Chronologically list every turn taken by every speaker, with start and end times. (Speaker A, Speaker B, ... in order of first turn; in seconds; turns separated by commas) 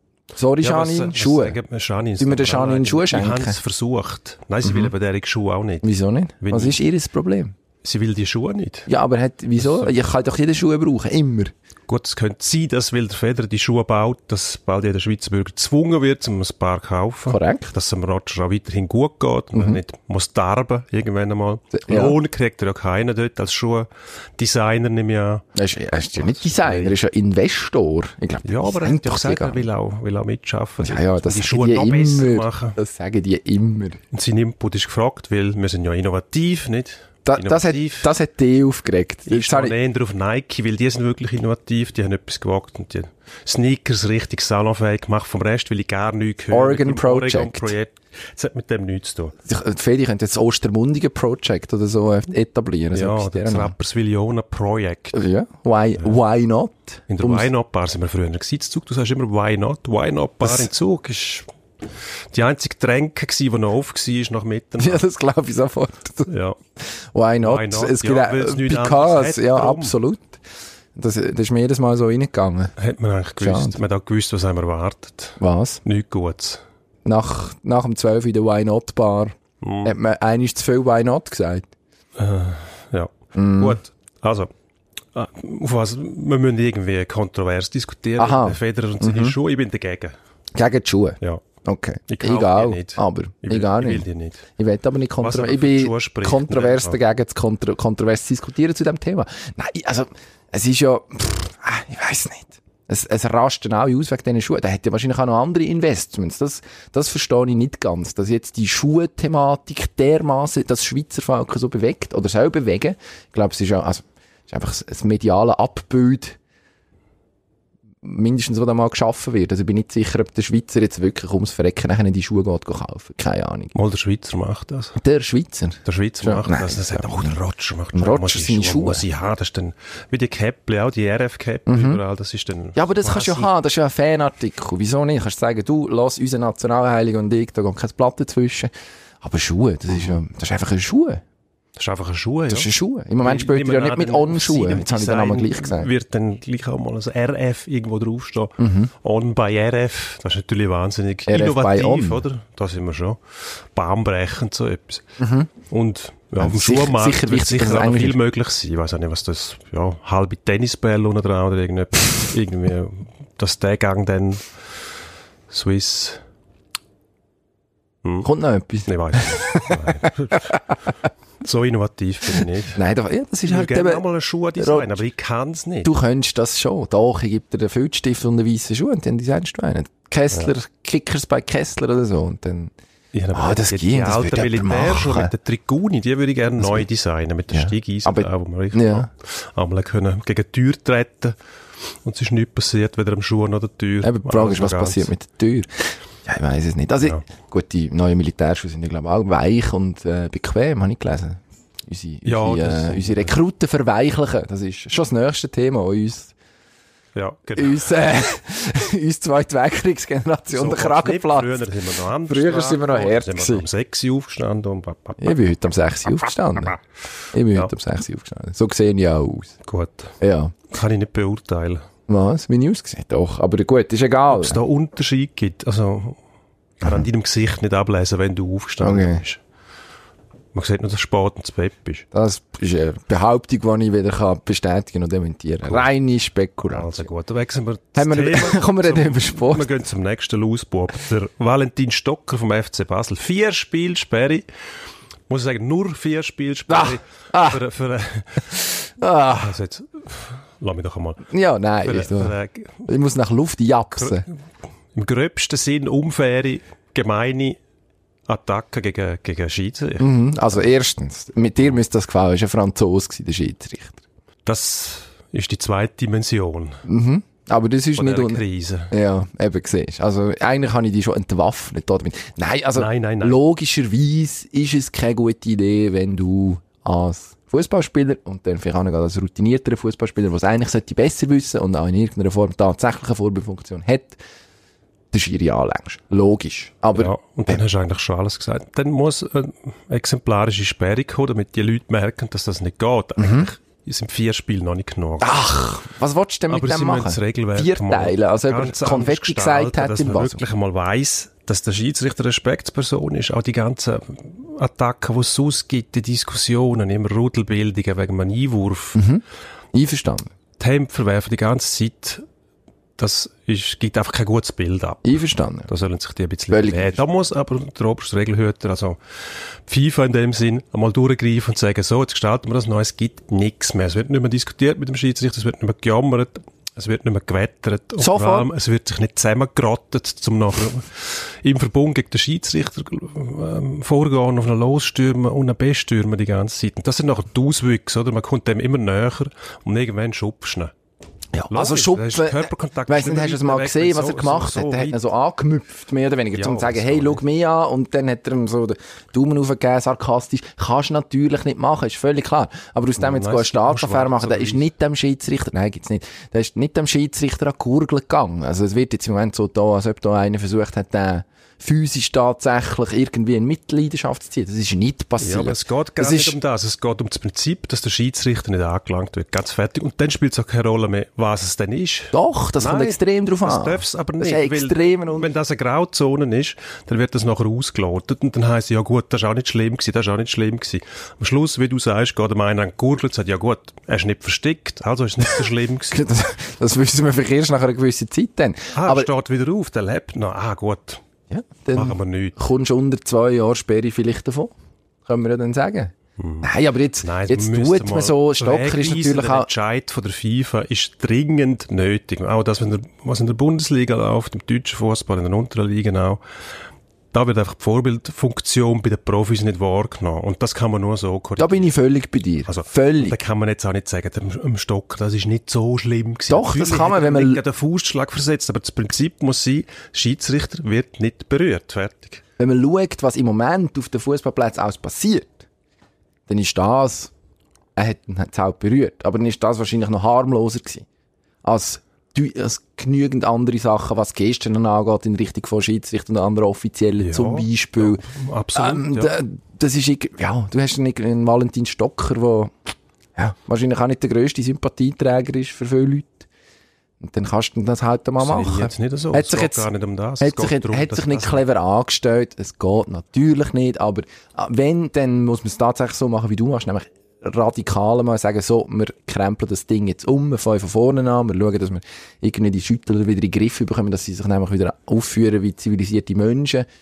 Speaker A: 0.3-1.6, Speaker B: 0.6-5.9, Speaker A: 2.2-3.6, Speaker A: 4.6-4.9, Speaker A: 5.8-7.5, Speaker B: 6.4-6.8, Speaker B: 7.8-8.9, Speaker A: 8.9-11.5, Speaker B: 9.6-9.9, Speaker B: 11.9-25.4, Speaker A: 17.3-17.7, Speaker A: 19.5-19.8, Speaker A: 21.7-22.1, Speaker A: 25.5-29.6, Speaker B: 26.1-26.9, Speaker B: 28.4-32.8, Speaker A: 30.8-34.0, Speaker B: 34.1-38.1, Speaker A: 37.2-39.7, Speaker B: 39.3-49.3, Speaker A: 46.5-47.7, Speaker A: 49.4-53.7, Speaker B: 52.9-55.2, Speaker A: 55.1-57.5, Speaker B: 57.1-61.5, Speaker B: 62.3-65.0, Speaker A: 64.8-66.3, Speaker B: 66.3-66.6, Speaker A: 67.1-70.4, Speaker B: 67.4-69.9, Speaker A: 70.9-72.7, Speaker B: 72.8-76.6, Speaker A: 73.4-73.8, Speaker A: 75.4-75.8, Speaker A: 77.0-81.7, Speaker B: 79.6-79.9, Speaker B: 82.2-84.5, Speaker A: 83.3-83.8, Speaker B: 85.1-90.1, Speaker A: 88.2-89.3, Speaker A: 90.5-116.4, Speaker B: 92.1-94.4, Speaker B: 95.2-97.0, Speaker A: 118.0-123.7, Speaker B: 123.7-125.0, Speaker A: 125.0-127.3, Speaker B: 125.8-133.5, Speaker A: 127.9-129.0, Speaker A: 131.7-132.0, Speaker A: 132.8-141.2, Speaker B: 141.8-142.7, Speaker A: 142.5-145.9, Speaker B: 143.2-164.5, Speaker A: 148.6-148.9, Speaker A: 151.3-152.2, Speaker A: 155.2-155.5, Speaker A: 156.4-158.2, Speaker B: 165.5-166.2, Speaker A: 168.2-170.7, Speaker B: 168.8-170.6, Speaker B: 171.4-172.8, Speaker A: 172.7-174.0, Speaker B: 173.4-175.9, Speaker A: 174.6-174.9, Speaker A: 175.8-182.7, Speaker B: 183.1-191.4, Speaker A: 183.3-185.3, Speaker A: 186.6-186.8, Speaker A: 187.5-189.1, Speaker B: 192.0-195.1, Speaker A: 194.0-206.3, Speaker B: 202.2-203.3, Speaker B: 207.1-207.9, Speaker A: 207.6-211.7, Speaker B: 210.5-215.4, Speaker A: 212.3-213.7, Speaker A: 215.2-216.8, Speaker A: 217.3-219.5, Speaker B: 219.6-220.2, Speaker A: 220.2-220.5, Speaker B: 220.7-221.8, Speaker A: 222.1-224.6, Speaker B: 224.3-226.2, Speaker B: 226.8-229.4, Speaker A: 228.8-229.2, Speaker B: 230.5-232.1, Speaker A: 232.1-237.1, Speaker B: 236.7-244.4, Speaker A: 237.9-239.7, Speaker B: 245.3-248.5, Speaker A: 246.7-247.6, Speaker A: 248.5-249.5, Speaker B: 249.3-251.3, Speaker A: 251.3-254.2, Speaker B: 251.8-252.9, Speaker B: 253.9-254.2, Speaker B: 254.9-257.6, Speaker B: 258.3-260.6, Speaker A: 260.0-264.0, Speaker B: 264.4-266.8, Speaker A: 266.9-284.2, Speaker B: 267.9-268.9, Speaker B: 272.7-273.4, Speaker A: 285.1-287.6, Speaker B: 286.9-295.4, Speaker A: 293.2-293.5, Speaker A: 295.2-300.4, Speaker B: 296.5-309.0, Speaker A: 308.9-310.3, Speaker B: 310.6-312.2, Speaker B: 313.0-340.7, Speaker A: 315.0-315.7, Speaker A: 316.5-317.0, Speaker A: 328.0-328.5, Speaker A: 341.3-366.4, Speaker B: 341.5-345.0, Speaker B: 346.3-347.2, Speaker B: 353.0-354.7, Speaker B: 365.2-386.0, Speaker A: 372.1-375.3, Speaker A: 385.9-389.1, Speaker B: 388.7-391.0, Speaker A: 391.3-394.5, Speaker B: 391.7-392.4, Speaker A: 395.1-399.5, Speaker B: 396.2-406.2, Speaker B: 407.1-411.7, Speaker A: 411.4-413.1, Speaker B: 412.4-422.2, Speaker A: 416.3-417.4, Speaker A: 422.4-425.4, Speaker A: 426.3-427.1, Speaker A: 427.8-430.8, Speaker A: 431.4-438.0, Speaker B: 437.0-439.2, Speaker A: 438.6-446.3, Speaker A: 447.0-449.7, Speaker B: 448.2-451.4, Speaker A: 450.2-466.7